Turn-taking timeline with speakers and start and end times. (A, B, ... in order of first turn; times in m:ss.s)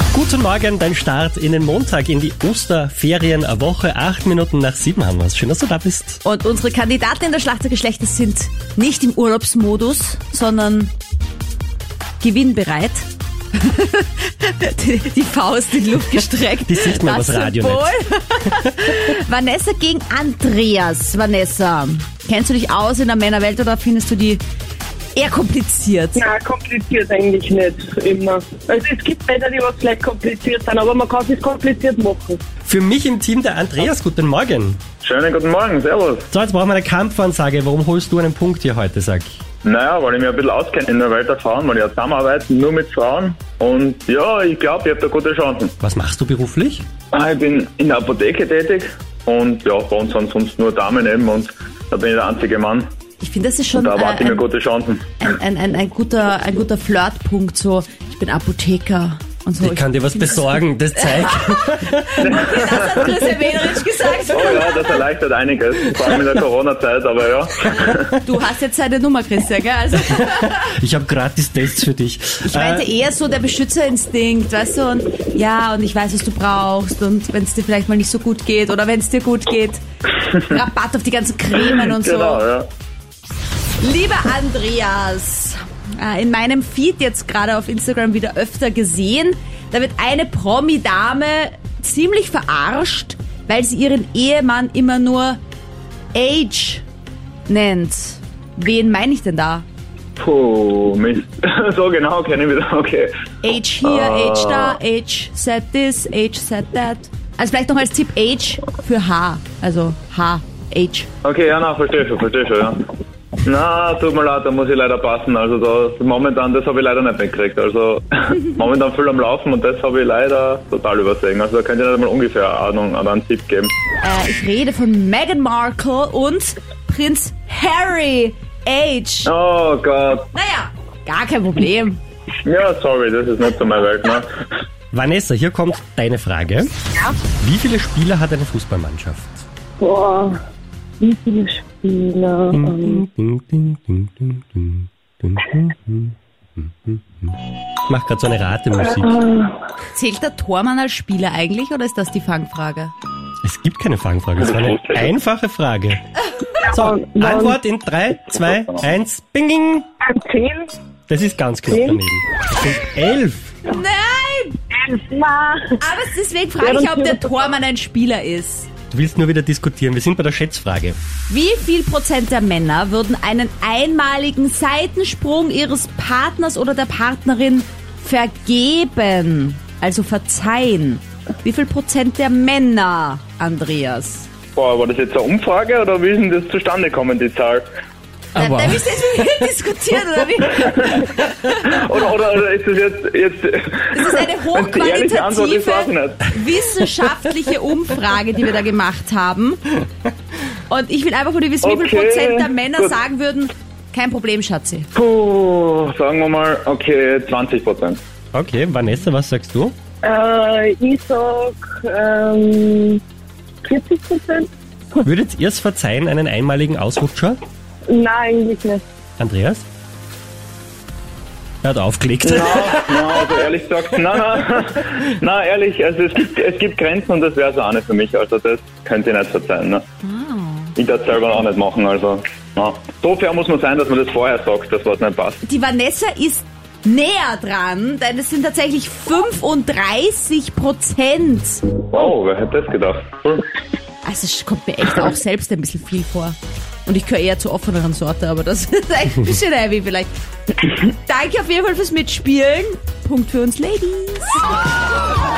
0:00.1-0:06.2 A
0:06.2-0:10.9 B
0:12.2-0:24.4 B
0:16.6-0:18.0 A
0:25.1-0:26.2 B
0:26.2-0:32.4 C
0:32.6-0:34.8 A
0:35.0-0:36.2 D
0:36.3-0:39.4 A
0:39.6-0:45.7 D
0:45.8-0:46.8 A
0:47.1-0:52.9 D
0:53.2-0:54.4 B
0:53.8-0:55.0 D
0:55.2-1:04.9 B
0:59.6-1:02.2 A
1:02.2-1:03.2 D
1:04.3-1:08.2 D
1:08.2-1:10.7 B
1:10.2-1:12.9 A
1:12.4-1:19.8 B
1:20.4-1:22.4 B
1:21.9-1:22.7 D
1:23.8-1:35.4 B
1:36.1-1:36.8 B
1:37.5-1:39.6 B
1:40.2-1:43.1 D
1:43.4-1:51.1 B
1:43.8-1:44.8 D
1:51.2-1:52.8 D
1:53.4-2:03.7 D
2:04.0-2:09.3 B
2:09.2-2:10.2 D
2:10.3-2:12.0 B
2:12.4-2:14.3 D
2:14.9-2:16.7 A
2:17.2-2:19.4 A
2:19.8-2:20.4 C
2:21.0-2:23.0 C
2:22.5-2:29.2 A
2:29.0-2:29.6 C
2:29.9-2:32.9 B
2:33.4-2:36.0 A
2:34.4-2:35.1 D
2:36.2-2:36.5 B
2:36.6-2:37.6 C
2:36.7-2:39.9 A
2:40.0-2:40.7 C
2:41.1-2:43.5 A
2:41.7-2:42.0 C
2:43.6-2:44.6 B
2:44.7-2:45.8 C
2:45.8-2:48.7 B
2:46.6-2:47.5 C
2:48.9-2:51.0 A
2:51.3-3:04.3 B
3:04.5-3:07.6 D
3:08.3-3:08.8 A
3:08.3-3:11.8 B
3:11.6-3:16.3 D
3:13.9-3:19.7 B
3:20.7-3:24.9 B
3:21.6-3:22.9 D
3:24.9-3:28.0 D
3:28.3-3:29.7 A
3:30.0-3:33.0 C
3:33.6-3:35.0 C
3:35.0-3:37.4 A
3:37.9-3:38.8 C
3:39.2-3:39.6 A
3:41.6-3:43.2 A
3:42.2-3:49.8 D
3:50.0-3:50.7 B
3:50.8-3:55.4 D
3:55.4-4:01.6 B
4:01.9-4:03.4 D
4:04.0-4:10.1 B
4:10.6-4:14.4 B